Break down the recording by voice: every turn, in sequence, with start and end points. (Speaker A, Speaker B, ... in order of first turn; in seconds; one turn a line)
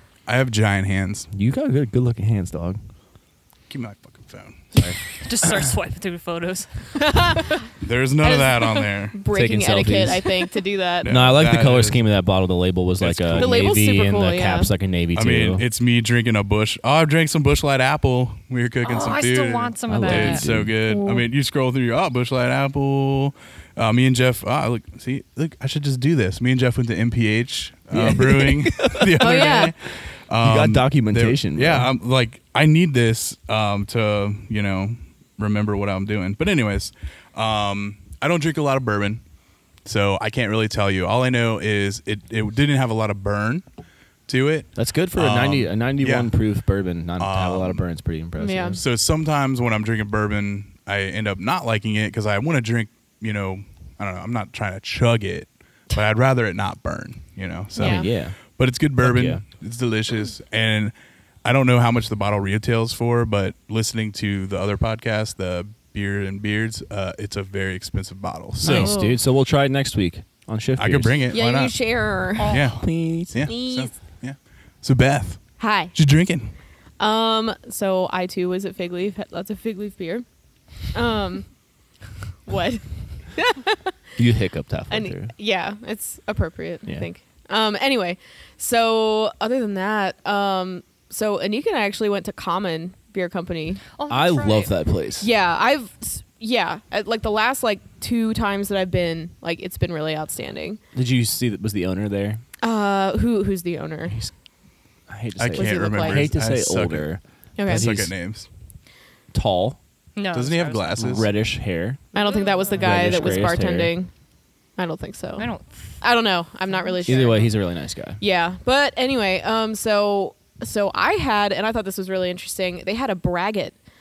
Speaker A: 0.3-1.3
Speaker B: 1.3-2.8
Speaker A: 3.7-4.7
Speaker C: 5.2-7.4
Speaker D: 7.0-7.5
Speaker A: 7.8-9.2
Speaker D: 8.2-8.5
Speaker D: 9.1-11.1
Speaker B: 9.3-10.3
Speaker A: 11.0-12.0
Speaker B: 11.0-15.6
Speaker A: 13.0-13.8
Speaker D: 13.3-14.7
Speaker A: 15.1-39.2
Speaker C: 18.8-20.5
Speaker B: 19.9-20.8
Speaker D: 20.9-21.2
Speaker B: 27.9-29.8
Speaker D: 29.2-29.7
Speaker B: 30.4-31.9
Speaker A: 39.8-43.6
Speaker A: 44.3-46.3
Speaker B: 44.8-48.8
Speaker A: 47.2-47.8
Speaker D: 48.4-48.8
Speaker A: 48.8-60.9
Speaker B: 57.7-58.4
Speaker D: 57.8-58.1
Speaker B: 59.0-59.4
Speaker A: 61.4-69.0
Speaker B: 68.6-71.3
Speaker D: 68.6-69.2
Speaker A: 70.8-71.8
Speaker D: 71.3-72.6
Speaker C: 72.4-72.7
Speaker A: 72.5-76.5
Speaker B: 72.5-73.3
Speaker D: 73.4-74.0
Speaker D: 75.6-75.9
Speaker D: 77.0-80.2
Speaker D: 80.9-81.5
Speaker D: 82.5-83.9
Speaker B: 84.2-85.3
Speaker D: 84.9-93.8
Speaker C: 94.0-94.7
Speaker B: 94.1-95.3
Speaker D: 95.2-100.8
Speaker B: 100.9-102.4
Speaker D: 102.6-104.2
Speaker B: 105.1-108.1
Speaker A: 105.4-107.1
Speaker D: 105.5-106.3
Speaker D: 107.6-107.9
Speaker A: 107.7-108.5
Speaker B: 109.3-109.8
Speaker C: 110.2-111.0
Speaker A: 110.3-111.3
Speaker B: 111.0-112.0
Speaker C: 112.1-113.5
Speaker D: 112.1-114.1
Speaker B: 112.7-113.9
Speaker D: 114.8-115.5
Speaker C: 115.4-116.0
Speaker D: 116.0-117.5
Speaker C: 116.7-117.5
Speaker B: 117.0-118.2
Speaker D: 118.2-123.8